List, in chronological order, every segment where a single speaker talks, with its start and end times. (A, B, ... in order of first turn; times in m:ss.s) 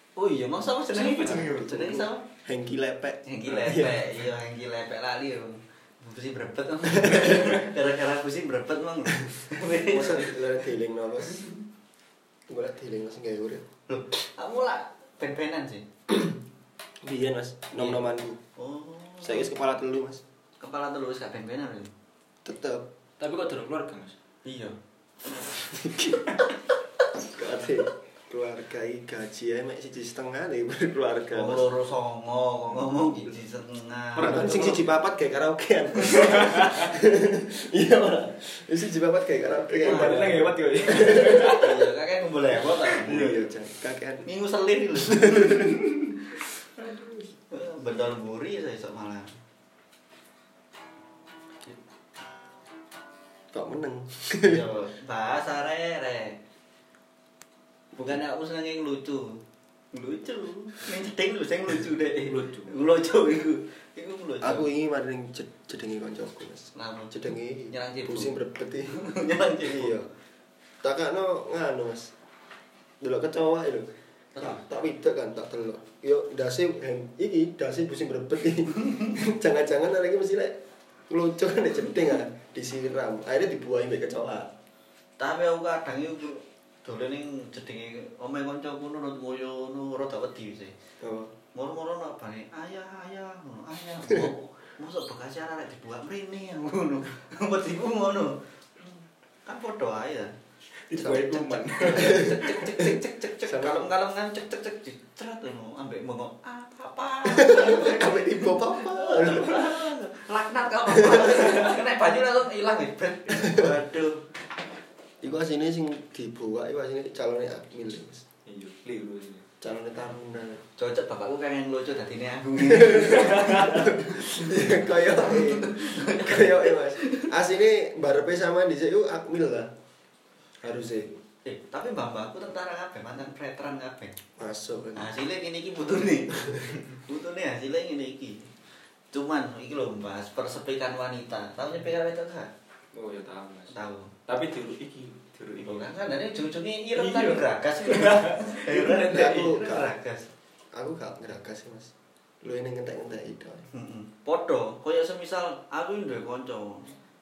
0:00.2-0:02.3 A
0:00.9-0:02.1 B
0:02.4-0:04.0 C
0:03.3-0:10.4 A
0:09.8-0:11.5 C
0:12.5-0:13.7 C
0:13.9-0:15.9 A
0:17.0-0:18.4 C
0:17.8-0:18.0 A
0:18.6-0:19.5 A
0:19.2-0:20.2 C
0:20.6-0:21.9 A
0:22.4-0:22.9 C
0:23.2-0:24.2 B
0:24.4-0:24.8 A
0:25.6-0:26.4 C
0:27.3-0:31.7 C
0:31.3-0:34.5 A
0:34.2-0:34.9 B
0:34.2-0:41.6 C
0:36.0-0:36.9 B
0:39.7-0:41.9 B
0:39.8-0:40.3 A
0:41.5-0:43.3 A
0:43.0-0:43.5 B
0:43.0-0:44.2 C
0:44.2-0:45.9 A
0:45.1-0:45.9 C
0:47.4-0:49.3 A
0:53.5-0:54.6 C
0:54.3-0:56.4 A
0:58.0-1:04.7 A
1:02.3-1:02.9 B
1:04.4-1:10.1 C
1:06.8-1:07.2 A
1:07.7-1:08.3 A
1:08.9-1:10.0 A
1:10.8-1:12.1 C
1:13.0-1:20.6 C
1:14.3-1:14.6 A
1:21.1-1:24.5 C
1:25.2-1:30.8 A
1:31.0-1:31.3 C
1:31.5-1:40.4 A
1:40.8-1:42.6 B
1:41.0-1:42.9 C
1:41.8-1:54.2 A
1:43.4-1:43.9 C
1:47.2-1:49.6 C
1:51.0-1:51.5 C
1:53.4-1:53.7 C
1:55.2-1:58.2 C
1:58.5-1:59.4 B
1:59.6-2:00.6 C
2:00.8-2:07.3 A
2:02.6-2:09.7 C
2:10.6-2:11.2 C
2:11.4-2:14.2 A
2:14.4-2:15.1 C
2:15.0-2:18.5 A
2:19.1-2:22.5 A
2:22.9-2:23.8 B
2:23.7-2:24.1 A
2:24.3-2:25.9 B
2:25.6-2:30.3 A
2:27.0-2:29.5 B
2:29.1-2:29.9 C
2:30.7-2:33.7 C
2:33.7-2:37.0 A